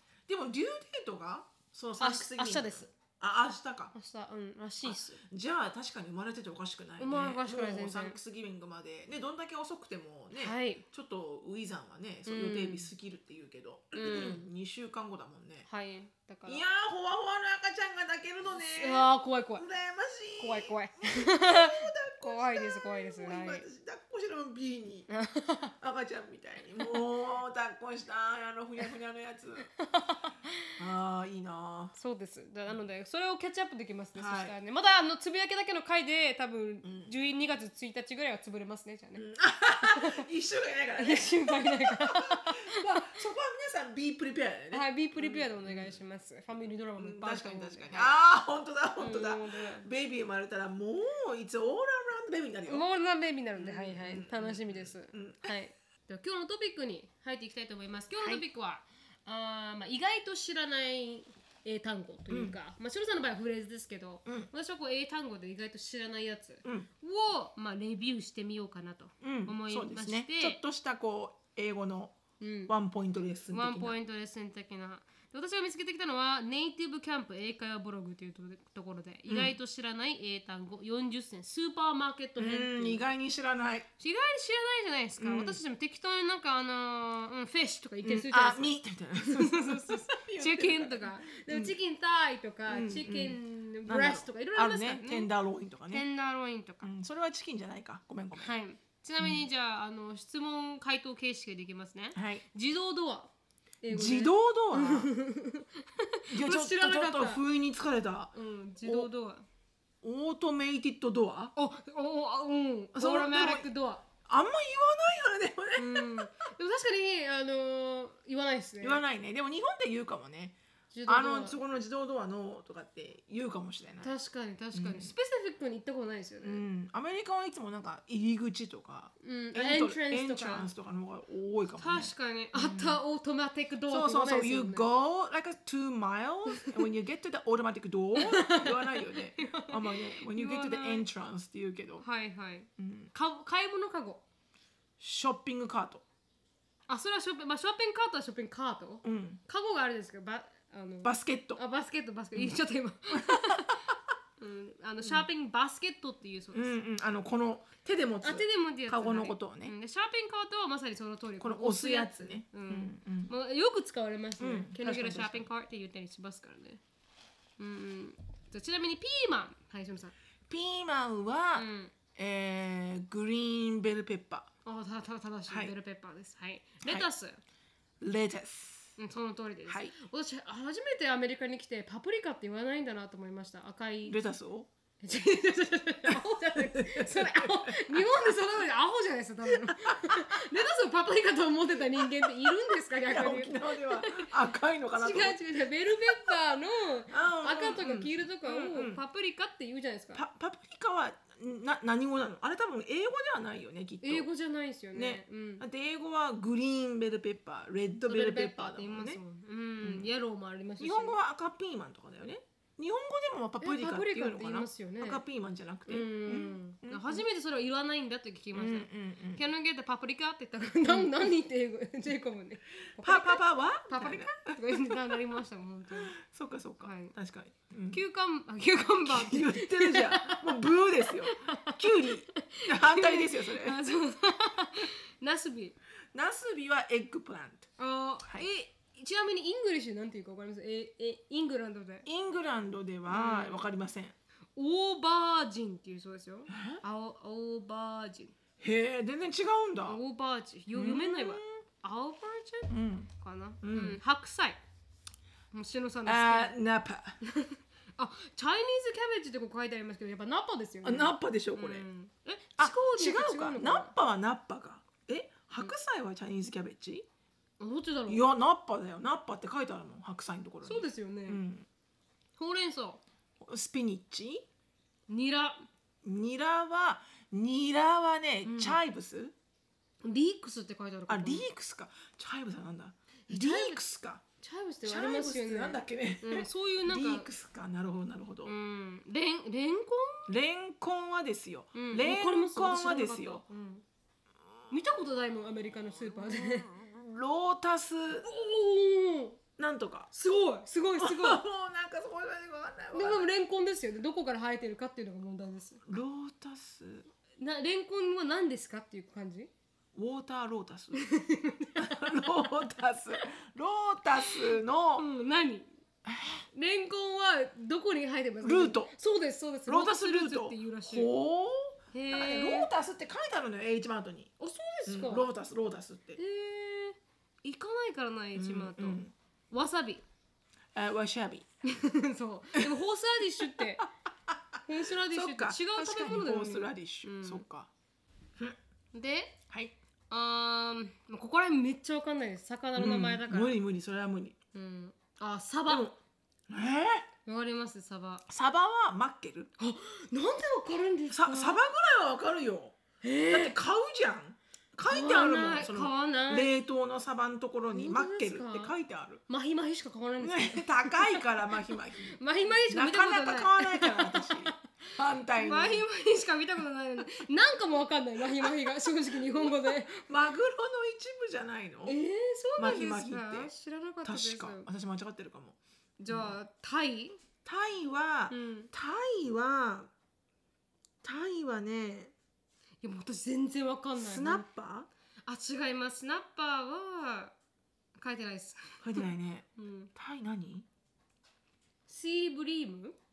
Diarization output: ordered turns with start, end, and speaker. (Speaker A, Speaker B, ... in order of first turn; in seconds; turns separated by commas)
Speaker A: 0.3-4.0, Speaker B: 2.0-2.9, Speaker B: 4.0-5.2, Speaker A: 4.8-15.7, Speaker B: 7.0-8.2, Speaker B: 10.3-10.8, Speaker B: 12.3-12.9, Speaker B: 13.9-14.5, Speaker B: 15.7-16.6, Speaker A: 16.4-25.1, Speaker B: 18.5-19.6, Speaker B: 20.4-23.7, Speaker B: 25.1-25.7, Speaker A: 25.8-29.7, Speaker B: 29.8-30.7, Speaker A: 30.8-31.9, Speaker B: 31.9-39.2, Speaker A: 34.2-34.5, Speaker A: 36.8-37.1, Speaker A: 39.2-46.0, Speaker B: 39.8-40.2, Speaker B: 41.0-43.2, Speaker B: 44.7-48.1, Speaker A: 47.0-52.9, Speaker B: 49.0-49.9, Speaker B: 52.7-70.6, Speaker A: 53.6-55.5, Speaker A: 62.3-62.6, Speaker A: 69.2-72.2, Speaker B: 72.4-72.7, Speaker A: 72.7-74.0, Speaker B: 73.5-83.1, Speaker A: 79.3-79.6, Speaker A: 82.4-83.9, Speaker B: 84.0-95.3, Speaker A: 85.2-85.6, Speaker A: 88.0-91.8, Speaker A: 92.7-96.1, Speaker B: 95.9-96.9, Speaker A: 96.8-98.5, Speaker B: 98.4-103.3, Speaker A: 99.2-99.5, Speaker A: 102.2-102.5, Speaker B: 103.8-107.4, Speaker A: 103.9-105.1, Speaker A: 106.3-109.1, Speaker B: 108.3-109.5, Speaker A: 110.0-111.5, Speaker B: 111.5-114.0, Speaker A: 113.0-113.7, Speaker A: 114.3-116.3, Speaker B: 115.8-119.0, Speaker A: 118.8-124.1, Speaker B: 120.9-121.6, Speaker B: 124.0-126.6, Speaker A: 124.7-125.1, Speaker A: 126.4-133.0, Speaker B: 129.2-130.7, Speaker B: 131.8-134.9, Speaker A: 133.9-142.1, Speaker B: 138.2-141.1, Speaker B: 142.0-144.2, Speaker A: 142.8-143.1, Speaker A: 145.0-146.0, Speaker B: 146.9-153.8, Speaker A: 149.0-149.4, Speaker A: 151.0-151.6, Speaker A: 152.3-152.6, Speaker A: 153.1-154.0, Speaker B: 154.4-156.8, Speaker A: 156.5-159.7, Speaker B: 158.2-166.8, Speaker A: 161.4-163.3, Speaker A: 164.4-165.5, Speaker B: 167.6-170.1, Speaker A: 170.5-174.5, Speaker B: 171.6-171.9, Speaker B: 174.7-177.4, Speaker A: 175.5-175.7, Speaker A: 176.8-177.1, Speaker A: 178.0-179.0, Speaker B: 179.0-184.2, Speaker A: 179.7-179.9, Speaker A: 184.1-184.7, Speaker B: 185.0-194.3, Speaker A: 186.1-188.4, Speaker A: 189.5-190.4, Speaker A: 192.0-192.6, Speaker A: 193.1-196.4, Speaker B: 195.0-200.2, Speaker A: 197.1-199.0, Speaker A: 200.1-204.3, Speaker B: 204.0-205.6, Speaker A: 204.9-209.2, Speaker B: 208.1-211.2, Speaker A: 209.8-210.1, Speaker A: 210.8-217.2, Speaker B: 213.6-215.2, Speaker B: 215.9-226.2, Speaker A: 218.6-219.4, Speaker A: 220.9-221.1, Speaker A: 223.0-225.1, Speaker A: 225.9-228.0, Speaker B: 226.8-227.2, Speaker B: 227.9-235.8, Speaker A: 229.1-233.8, Speaker A: 236.1-237.7, Speaker B: 237.8-242.1, Speaker A: 242.1-244.2, Speaker B: 243.1-243.6, Speaker B: 244.6-248.3, Speaker A: 246.5-246.8, Speaker A: 248.6-250.0, Speaker B: 249.9-254.6, Speaker A: 250.7-251.5, Speaker A: 252.7-253.1, Speaker A: 253.6-254.0, Speaker B: 255.5-256.6, Speaker A: 256.1-257.2, Speaker B: 257.2-263.9, Speaker A: 260.8-261.9, Speaker A: 262.6-267.1, Speaker B: 267.6-268.2, Speaker A: 268.1-271.7, Speaker B: 270.6-271.4, Speaker B: 272.4-273.0, Speaker A: 273.4-274.4, Speaker B: 275.1-275.7, Speaker A: 276.0-279.4, Speaker B: 278.4-278.8, Speaker B: 280.0-281.5, Speaker A: 281.1-284.2, Speaker B: 283.3-283.8, Speaker B: 284.4-287.3, Speaker A: 284.8-288.5, Speaker B: 288.4-290.3, Speaker A: 290.3-293.4, Speaker B: 291.8-293.8, Speaker B: 294.7-296.7, Speaker A: 296.1-298.3, Speaker B: 298.2-299.4, Speaker A: 299.6-300.1, Speaker B: 300.1-301.4, Speaker A: 301.0-303.3, Speaker B: 302.9-305.8, Speaker A: 305.9-307.1, Speaker B: 307.4-309.5, Speaker A: 309.9-311.1, Speaker B: 311.0-312.5, Speaker A: 311.8-315.1, Speaker B: 314.2-315.7, Speaker A: 316.1-316.4, Speaker B: 316.5-321.1, Speaker A: 318.4-318.9, Speaker A: 319.7-324.3, Speaker B: 321.9-322.7, Speaker B: 324.4-325.3, Speaker A: 324.9-326.2, Speaker B: 326.2-330.0, Speaker A: 328.4-329.1, Speaker A: 330.8-331.5, Speaker B: 331.6-333.9, Speaker A: 332.6-332.8, Speaker A: 333.6-337.7, Speaker B: 334.7-337.4, Speaker B: 338.9-339.4, Speaker A: 339.5-339.8, Speaker B: 340.1-343.6, Speaker A: 342.8-344.4, Speaker B: 344.5-345.9, Speaker A: 345.7-346.0, Speaker A: 346.5-347.1, Speaker B: 347.3-348.2, Speaker A: 348.3-349.5, Speaker B: 349.6-351.7, Speaker A: 351.1-359.2, Speaker B: 353.0-353.5, Speaker B: 354.9-356.5, Speaker B: 357.7-358.7, Speaker B: 359.3-361.3, Speaker A: 360.2-365.9, Speaker B: 362.1-364.6, Speaker B: 365.4-370.1, Speaker A: 368.2-372.0, Speaker B: 371.9-374.7, Speaker A: 372.6-373.5, Speaker A: 374.0-376.4, Speaker B: 376.0-377.2, Speaker A: 377.4-379.9, Speaker B: 378.3-378.7, Speaker A: 381.0-382.1, Speaker B: 382.8-384.5, Speaker A: 384.0-384.9, Speaker B: 385.3-387.4, Speaker B: 388.0-389.9, Speaker A: 388.8-390.7, Speaker B: 391.9-393.0